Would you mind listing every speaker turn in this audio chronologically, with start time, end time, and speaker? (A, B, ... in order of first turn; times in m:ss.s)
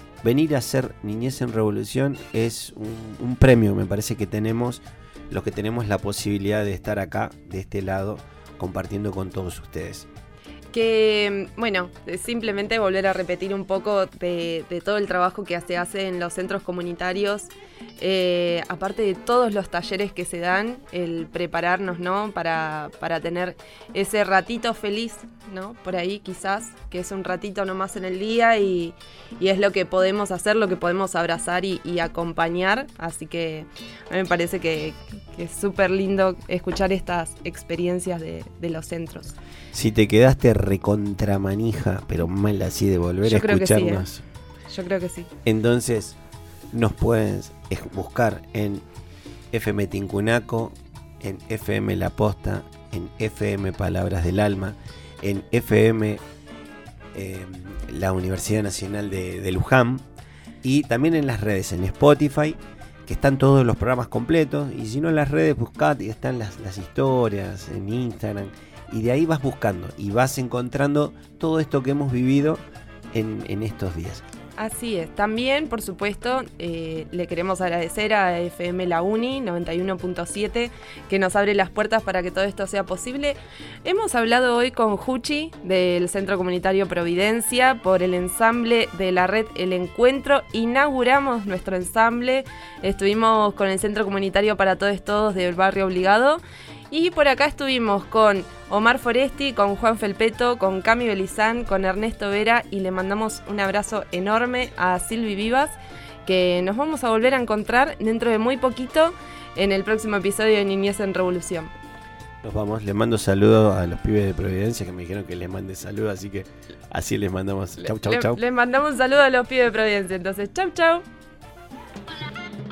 0:00.2-0:10.1 A
0:10.7-0:39.4 B
0:39.7-0:44.2 A
0:43.2-0:44.1 B
0:44.7-0:45.3 B
0:45.4-0:46.1 A
0:46.7-0:48.8 A
0:49.5-0:56.2 A
0:57.1-1:00.0 A
1:00.6-1:14.2 A
1:14.6-1:51.7 B
1:52.4-1:58.4 A
1:57.8-2:01.0 B